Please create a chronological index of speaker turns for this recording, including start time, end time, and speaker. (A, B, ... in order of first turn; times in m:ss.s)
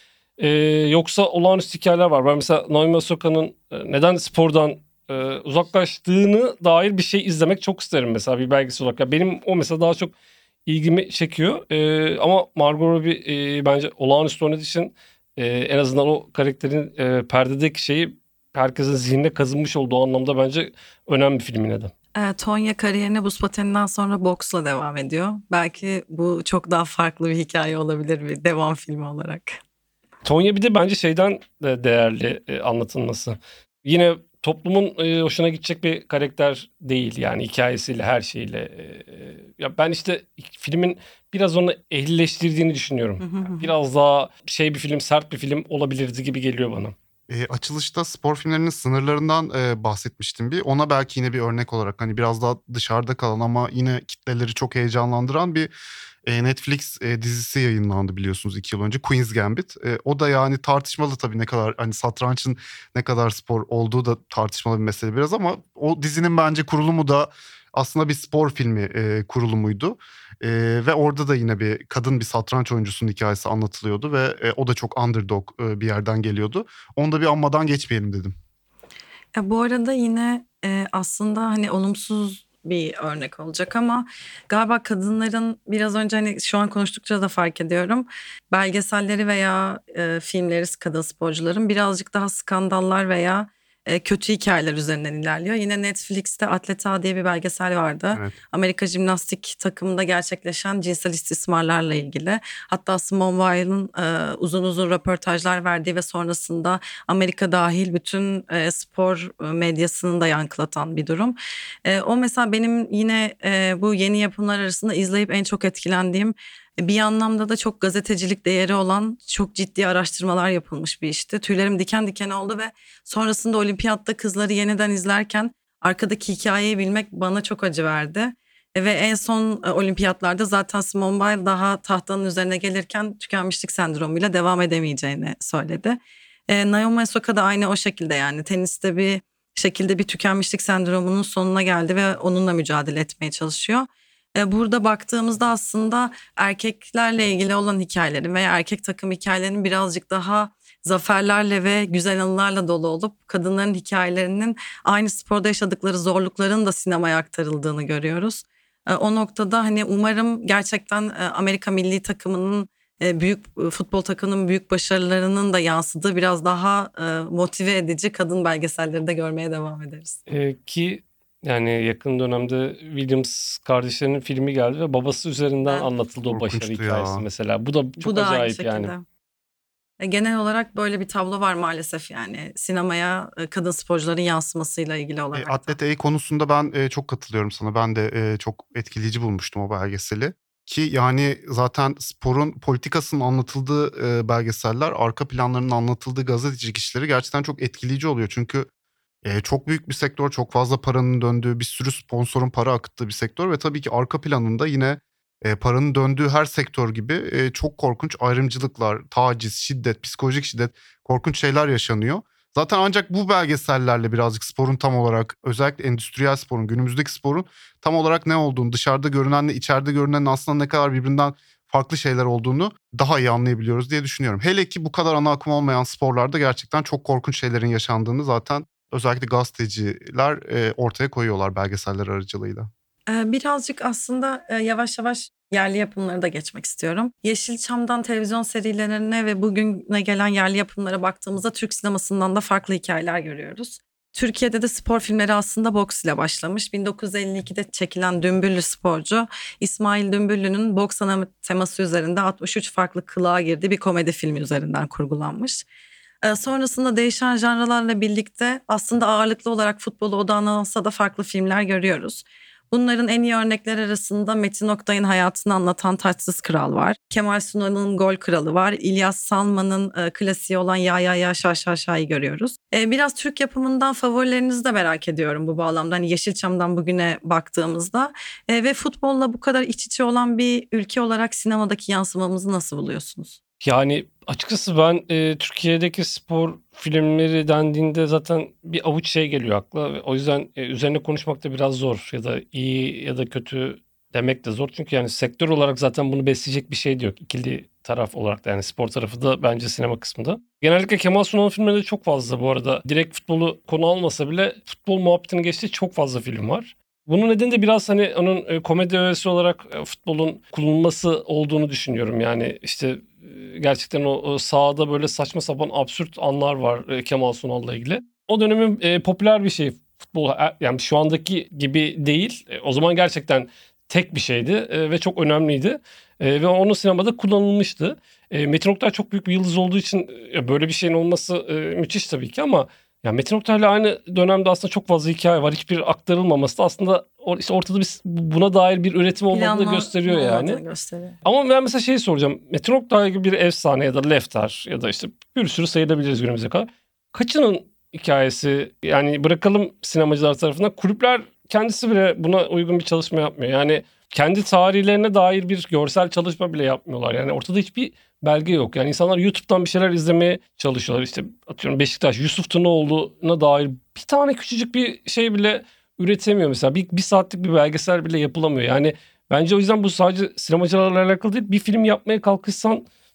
0:00.4-0:10.1 A
0:10.7-0:21.9 A
0:22.2-0:29.6 B
0:30.2-0:46.9 A
0:43.2-0:43.7 B
0:47.3-0:55.7 C
0:56.2-1:18.3 C
1:19.3-2:16.0 B
2:16.5-2:50.2 B
2:50.3-2:58.9 A
2:56.3-2:57.2 C
2:58.0-2:59.0 B
3:00.0-3:05.8 B
3:05.3-3:18.7 C
3:19.2-3:52.7 C
3:53.1-4:15.6 B
4:16.2-4:43.4 B
4:43.6-5:40.6 A
5:39.3-5:41.2 B
5:41.2-6:12.9 A